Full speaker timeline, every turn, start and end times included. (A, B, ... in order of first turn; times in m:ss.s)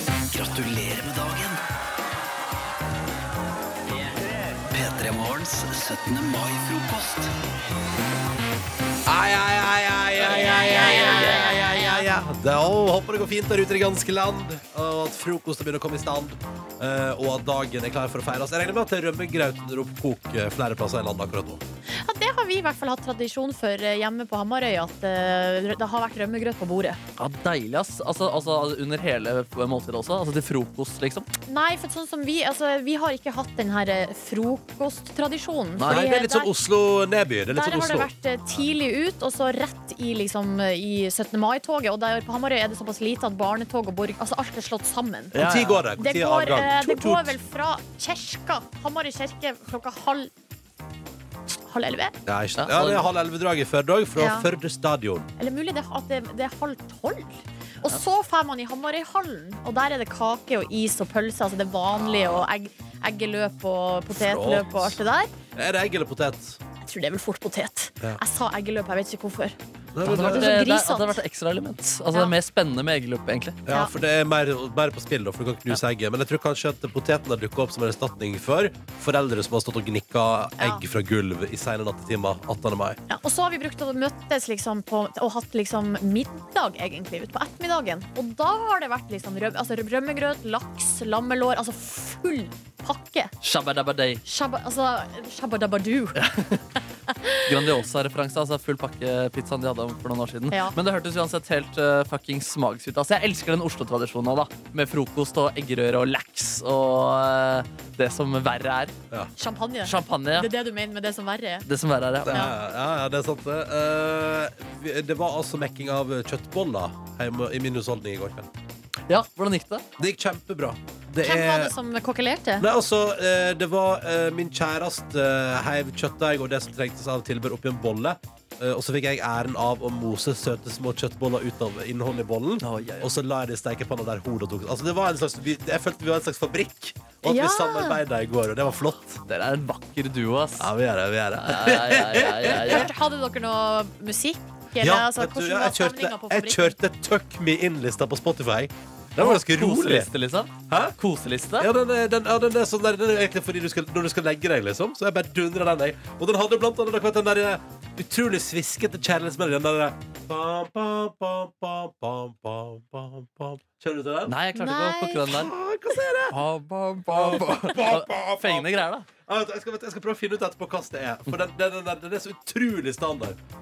0:00.3-0:01.6 A
0:04.6-0:07.3 A
0:09.0-0:21.6 B
0:10.2-0:12.0 C
0:21.9-0:27.0 C
0:27.2-0:31.3 D
0:31.5-0:36.5 C
0:35.8-0:36.0 D
0:35.9-0:38.1 B
0:37.5-0:45.4 C
0:45.3-0:45.8 D
0:45.4-0:47.4 B
0:46.0-0:50.3 C
0:51.6-0:52.2 C
0:52.2-0:55.3 B
0:52.6-0:53.1 D
0:54.2-0:54.5 C
0:55.4-1:05.3 C
1:04.1-1:05.0 B
1:05.5-1:06.6 B
1:06.8-1:09.6 C
1:09.9-1:10.6 B
1:10.0-1:13.6 D
1:10.1-1:11.2 C
1:13.6-1:23.0 B
1:23.1-1:33.3 C
1:33.4-1:34.2 D
1:34.2-1:36.2 C
1:36.2-1:36.6 D
1:37.1-1:37.4 C
1:37.4-1:48.9 D
1:49.4-1:51.6 C
1:49.8-1:50.5 D
1:51.6-1:52.4 D
1:52.2-1:58.5 B
1:59.1-1:59.8 D
2:00.0-2:01.7 B
2:01.2-2:02.7 C
2:02.6-2:19.2 B
2:12.6-2:13.1 D
2:17.2-2:18.0 C
2:19.3-2:20.7 D
2:20.6-2:22.9 B
2:21.4-2:22.9 D
2:22.5-2:26.7 C
2:24.8-2:30.1 B
2:29.2-2:31.7 D
2:30.7-2:30.9 B
2:31.6-2:44.4 B
2:44.3-2:45.5 D
2:44.5-2:45.3 C
2:45.3-2:46.4 B
2:46.3-2:49.1 D
2:47.1-2:48.7 B
2:49.2-2:53.4 B